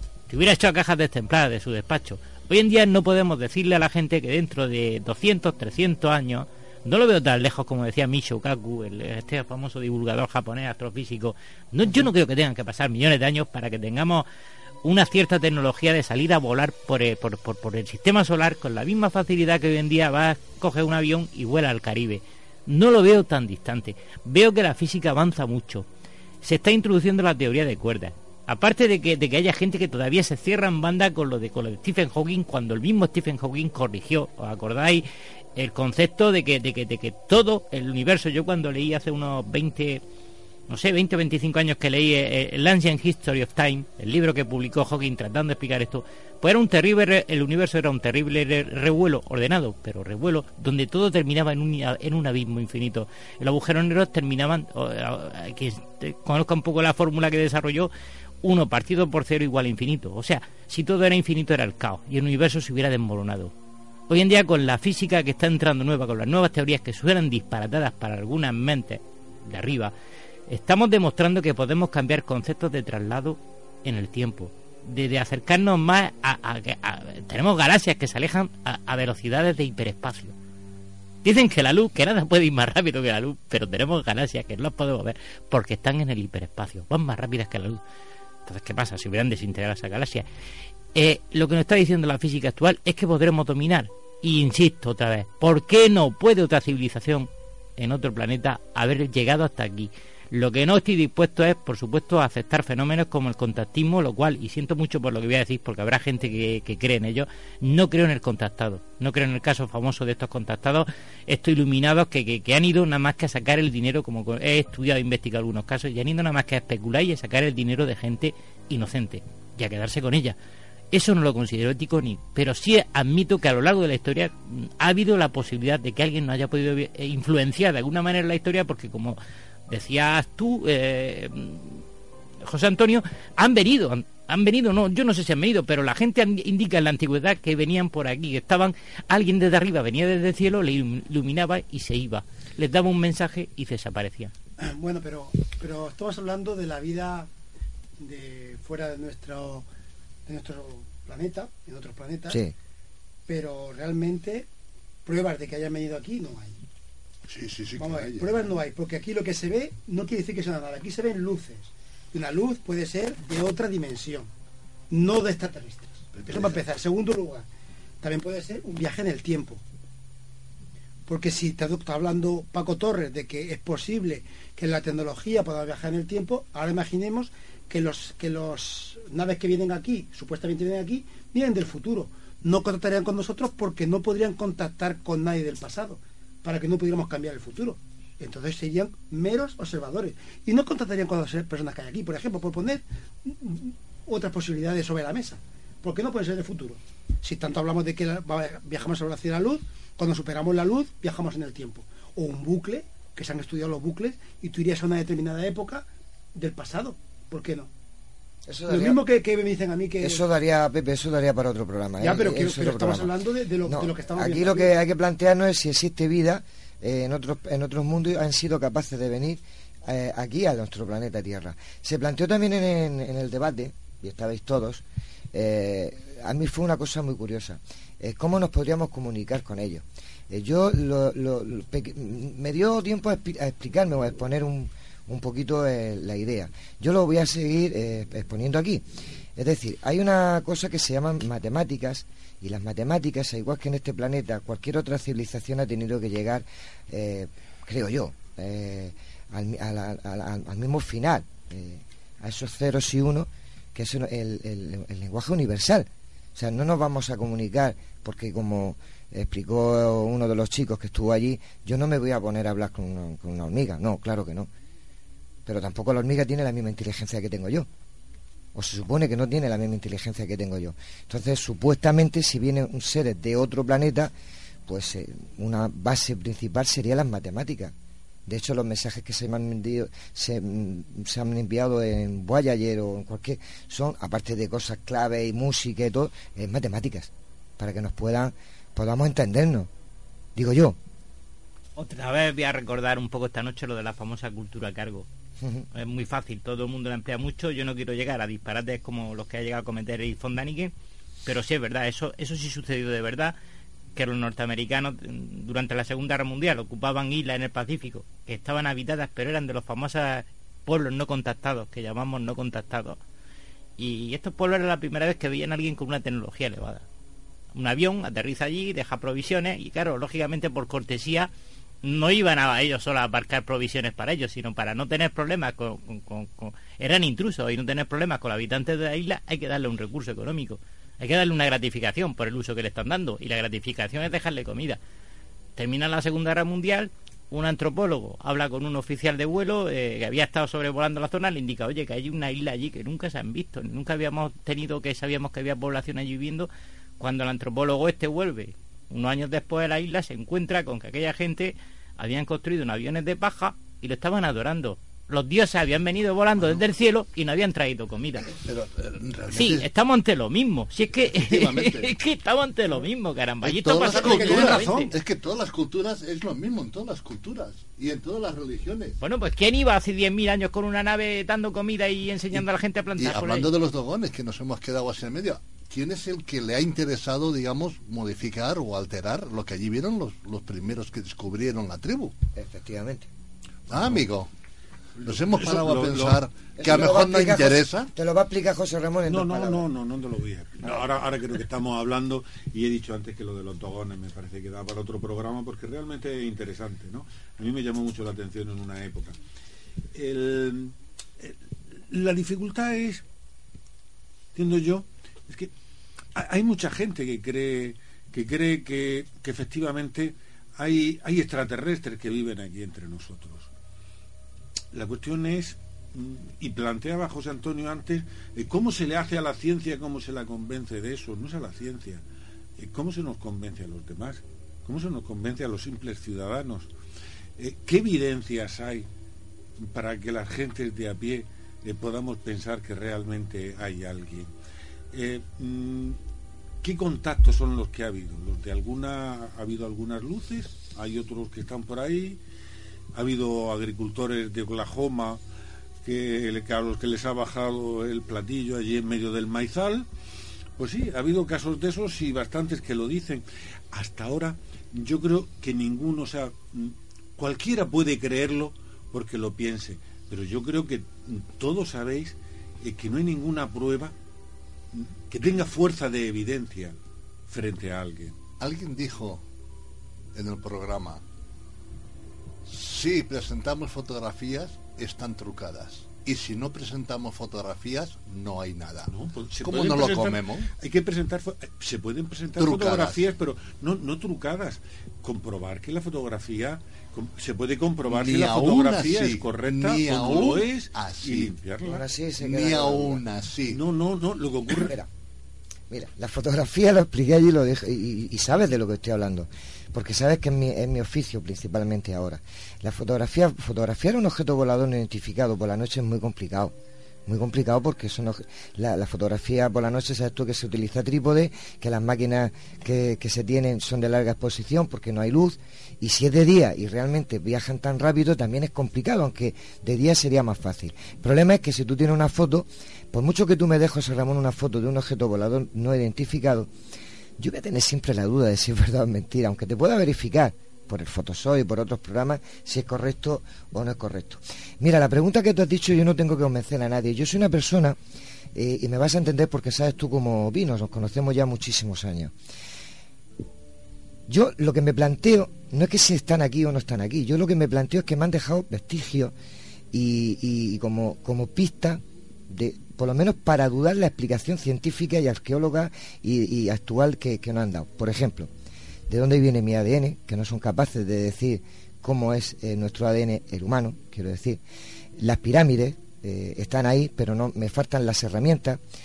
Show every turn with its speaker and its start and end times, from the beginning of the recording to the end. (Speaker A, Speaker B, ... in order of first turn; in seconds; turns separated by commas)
Speaker A: 0.3-14.3, Speaker A: 14.8-25.9, Speaker A: 26.4-35.1, Speaker A: 35.6-40.0, Speaker A: 40.7-57.9, Speaker A: 58.4-63.5, Speaker A: 64.1-69.9, Speaker A: 70.5-80.3, Speaker A: 81.2-87.8, Speaker A: 88.5-90.2, Speaker A: 90.9-120.4, Speaker A: 120.9-129.2, Speaker A: 129.7-131.8, Speaker A: 132.4-144.3, Speaker B: 144.6-147.3, Speaker B: 148.0-149.7, Speaker B: 150.3-152.4, Speaker B: 153.3-154.5, Speaker B: 155.1-156.6, Speaker C: 157.3-158.4, Speaker B: 157.8-164.3, Speaker B: 164.9-167.5, Speaker C: 166.1-166.6, Speaker B: 168.0-169.6, Speaker B: 171.1-207.7, Speaker D: 208.5-209.0, Speaker B: 208.7-210.2, Speaker D: 210.0-213.1, Speaker B: 212.0-214.7, Speaker D: 213.7-238.8, Speaker D: 239.4-264.5, Speaker D: 265.5-267.7, Speaker D: 268.6-274.1, Speaker D: 274.7-277.7, Speaker D: 278.3-289.7, Speaker D: 290.4-290.8, Speaker A: 291.8-295.1, Speaker D: 295.4-295.7, Speaker A: 295.7-300.7, Speaker A: 301.2-303.4, Speaker A: 303.9-313.0, Speaker A: 313.8-316.9, Speaker A: 317.5-321.3, Speaker A: 321.8-334.8, Speaker A: 335.6-358.3, Speaker C: 356.4-356.6, Speaker C: 358.2-359.7, Speaker A: 359.3-364.9, Speaker C: 361.0-361.9, Speaker C: 363.4-369.0, Speaker B: 363.9-364.9, Speaker A: 369.0-373.5, Speaker C: 372.3-382.1, Speaker D: 382.4-383.1, Speaker C: 383.7-384.3, Speaker E: 385.0-386.2, Speaker C: 385.0-387.9, Speaker D: 386.6-389.7, Speaker E: 389.1-399.2, Speaker E: 399.9-403.0, Speaker E: 404.4-405.5, Speaker E: 406.1-413.5, Speaker E: 414.7-422.0, Speaker E: 422.6-426.7, Speaker E: 427.4-428.9, Speaker E: 429.6-434.3, Speaker E: 434.9-436.0, Speaker E: 436.6-442.2, Speaker E: 442.9-445.2, Speaker E: 445.8-449.9, Speaker E: 450.6-463.9, Speaker E: 464.7-466.8, Speaker E: 467.3-468.2, Speaker C: 468.4-469.2, Speaker C: 470.1-471.0, Speaker C: 472.5-480.5, Speaker E: 478.9-491.9, Speaker C: 482.4-483.1, Speaker C: 487.9-491.4, Speaker D: 491.6-493.0, Speaker C: 492.2-493.6, Speaker E: 493.5-494.7, Speaker D: 494.6-494.9, Speaker D: 495.7-506.5, Speaker D: 507.1-526.5, Speaker D: 527.2-537.8, Speaker D: 538.3-542.1, Speaker D: 544.1-549.1, Speaker D: 549.7-558.3, Speaker D: 558.9-564.4, Speaker D: 565.0-568.6